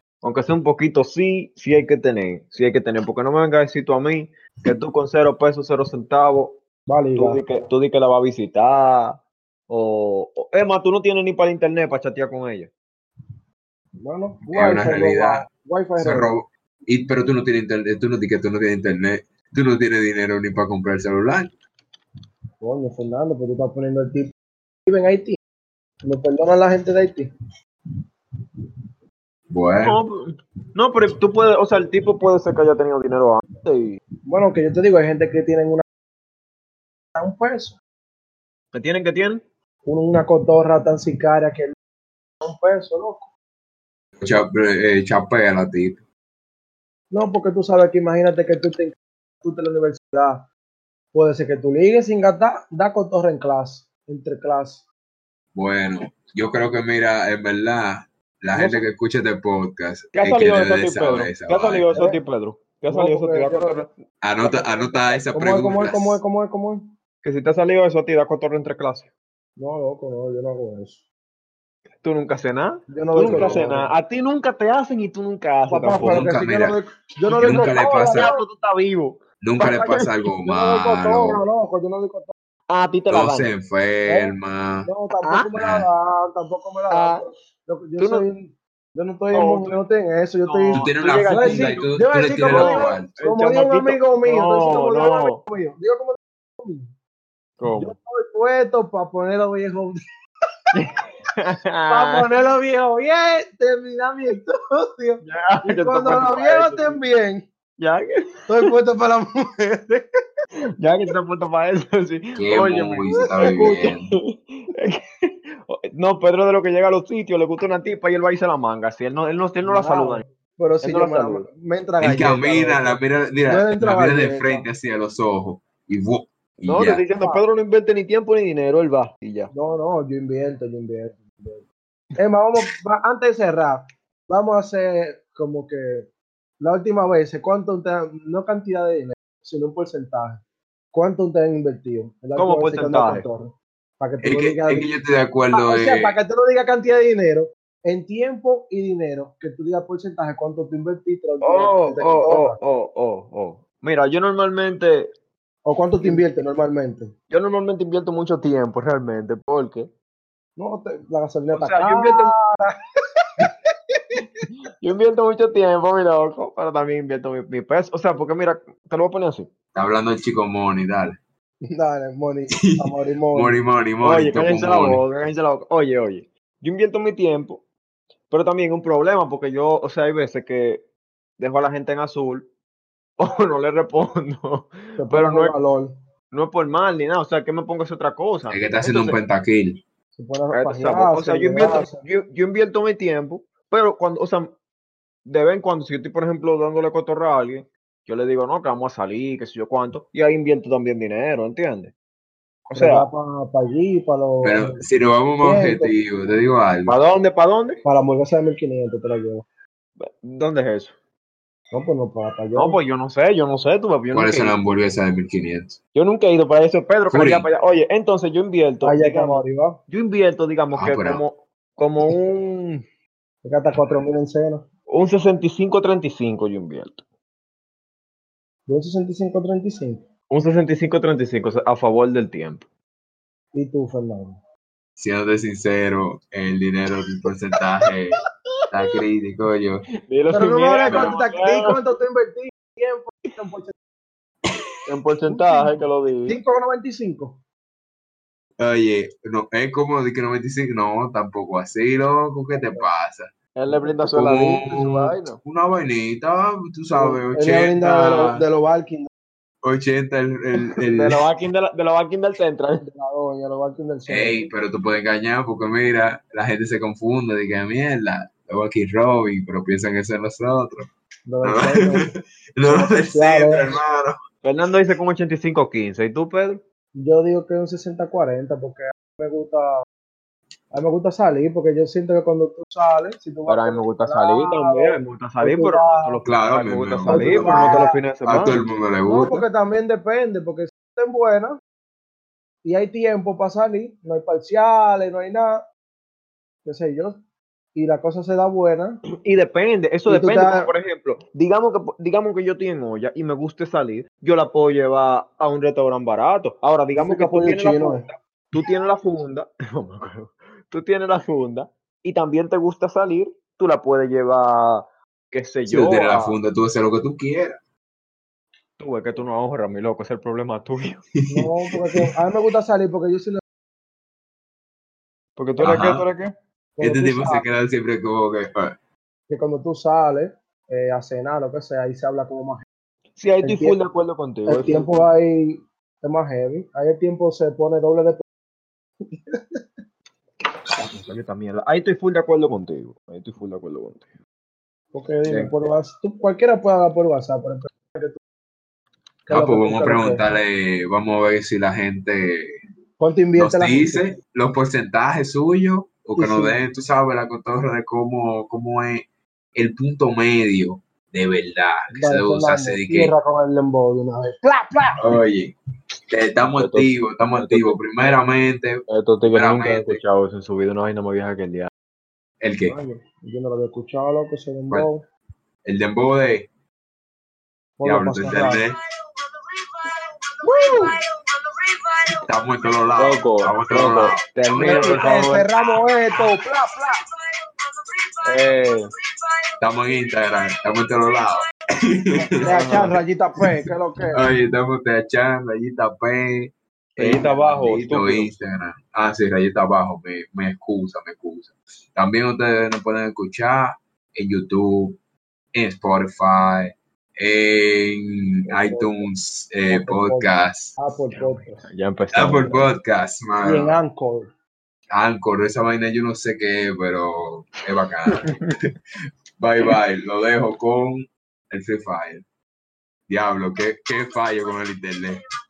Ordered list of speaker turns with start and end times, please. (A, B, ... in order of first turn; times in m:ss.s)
0:00.2-0:06.6 A
0:06.9-0:07.4 B
0:07.1-0:12.7 A
0:14.0-0:16.3 B
0:14.5-0:15.4 C
0:16.0-0:21.5 C
0:22.6-0:24.3 B
0:24.9-0:25.4 B
0:26.0-0:27.3 B
0:29.5-0:30.0 C
0:29.8-0:34.0 A
0:34.3-0:35.8 B
0:37.2-0:37.8 B
0:38.7-0:39.4 A
0:39.9-0:41.7 B
0:42.4-0:43.3 B
0:44.2-0:46.0 C
0:47.1-0:50.4 B
0:51.1-0:54.9 B
0:55.6-1:02.1 C
0:58.6-0:58.8 B
1:00.1-1:03.9 A
1:02.0-1:02.2 B
1:02.9-1:03.8 B
1:04.2-1:06.2 C
1:04.4-1:07.0 B
1:07.2-1:09.1 A
1:09.6-1:11.0 B
1:12.0-1:16.3 A
1:12.9-1:13.9 B
1:13.2-1:13.6 C
1:15.7-1:18.4 B
1:16.0-1:16.8 C
1:17.3-1:18.3 C
1:17.4-1:20.1 A
1:19.4-1:21.4 C
1:20.4-1:22.3 B
1:22.7-1:23.5 A
1:23.1-1:24.9 C
1:24.1-1:36.9 B
1:25.2-1:25.5 A
1:25.6-1:25.9 C
1:26.9-1:27.2 A
1:28.0-1:28.2 A
1:29.3-1:29.8 A
1:30.4-1:31.8 A
1:30.7-1:33.1 C
1:32.4-1:35.4 A
1:37.6-1:37.9 A
1:37.8-1:40.0 B
1:40.7-1:42.3 A
1:41.9-1:47.4 B
1:45.2-1:47.0 A
1:47.8-1:48.4 A
1:48.5-1:50.0 B
1:50.8-2:00.2 A
1:52.4-1:54.1 C
1:53.1-1:53.8 B
1:59.6-2:04.7 B
2:00.8-2:01.5 A
2:02.0-2:07.0 C
2:06.6-2:09.5 A
2:07.2-2:07.4 B
2:09.5-2:11.6 B
2:12.2-2:16.1 B
2:16.6-2:20.4 B
2:20.9-2:24.9 B
2:22.4-2:23.3 A
2:24.2-2:26.2 C
2:25.5-2:32.6 B
2:31.4-2:35.1 A
2:35.7-2:37.1 B
2:37.3-2:39.9 A
2:40.6-2:42.7 B
2:41.5-2:42.3 A
2:44.8-2:49.5 A
2:49.7-2:51.2 C
2:51.7-2:53.6 B
2:52.6-2:55.0 C
2:54.0-2:57.6 A
2:58.3-3:00.8 A
3:01.4-3:02.5 A
3:03.2-3:05.5 A
3:05.0-3:05.9 B
3:06.3-3:09.2 A
3:08.5-3:09.8 C
3:10.2-3:12.0 B
3:10.5-3:14.6 A
3:15.3-3:21.9 A
3:22.7-3:23.1 A
3:22.7-3:24.8 B
3:24.4-3:27.0 C
3:25.4-3:25.9 B
3:26.9-3:27.8 A
3:27.8-3:29.4 B
3:30.0-3:31.0 A
3:31.7-3:32.8 B
3:32.6-3:34.6 A
3:34.1-3:35.8 C
3:35.9-3:42.8 A
3:37.1-3:37.5 C
3:38.8-3:39.8 B
3:40.7-3:41.2 C
3:43.4-3:44.6 B
3:44.9-3:47.0 A
3:48.7-3:50.1 B
3:50.3-3:52.7 A
3:53.5-3:54.4 B
3:55.0-3:59.8 C
4:00.1-4:01.8 A
4:00.3-4:03.8 B
4:00.9-4:01.1 C
4:04.9-4:06.4 A
4:05.3-4:07.4 B
4:08.6-4:13.3 C
4:12.5-4:12.9 B
4:13.6-4:15.4 A
4:14.0-4:18.4 C
4:16.9-4:19.1 B
4:19.6-4:21.2 C
4:20.7-4:22.8 A
4:22.8-4:24.5 B
4:24.1-4:30.9 C
4:31.3-4:32.1 B
4:31.4-4:34.2 C
4:32.7-4:33.8 B
4:34.4-4:36.6 A
4:37.0-4:39.7 B
4:40.7-4:46.2 B
4:43.5-4:48.6 A
4:46.2-4:49.4 C
4:47.1-4:48.0 B
4:49.1-4:51.6 B
4:52.6-4:55.6 B
4:56.6-4:57.2 B
4:57.7-4:59.0 B
4:59.2-5:16.4 A
5:00.1-5:00.7 B
5:06.9-5:08.0 B
5:15.7-5:17.6 C
5:18.8-5:21.0 A
5:21.2-5:22.1 C
5:21.3-5:23.4 B
5:25.4-5:26.3 A
5:25.6-5:26.0 C
5:26.8-5:27.5 B
5:26.8-5:28.7 C
5:29.3-5:32.6 B
5:33.2-5:34.9 A
5:33.4-5:33.8 B
5:34.5-5:38.2 B
5:39.3-5:39.6 B
5:40.8-5:44.1 A
5:44.9-5:48.2 B
5:45.3-5:45.5 A
5:49.3-5:50.2 B
5:49.3-5:52.6 C
5:53.0-5:54.2 B
5:53.4-5:59.0 C
5:56.2-5:56.6 B
5:59.6-6:03.1 C
6:01.9-6:05.0 B
6:05.0-6:05.5 C
6:06.1-6:10.0 C
6:06.6-6:07.8 A
6:08.9-6:11.7 A
6:12.4-6:12.8 C
6:12.7-6:15.0 B
6:15.6-6:16.5 C
6:17.8-6:18.6 B
6:17.8-6:18.8 C
6:19.5-6:20.8 C
6:20.4-6:20.9 B
6:21.5-6:25.3 C
6:23.0-6:25.4 A
6:24.6-6:27.0 B
6:28.2-6:28.9 A
6:29.6-6:32.9 C
6:32.4-6:34.2 B
6:32.4-6:33.0 A
6:34.1-6:45.0 C
6:37.0-6:38.4 A
6:45.6-6:50.8 C
6:48.4-6:49.1 B
6:49.7-6:51.6 B
6:51.1-6:52.7 A
6:52.1-6:53.8 C
6:53.4-6:54.3 B
6:54.9-6:58.7 C
6:58.1-6:58.5 A
6:59.4-7:02.2 C
7:03.1-7:05.2 C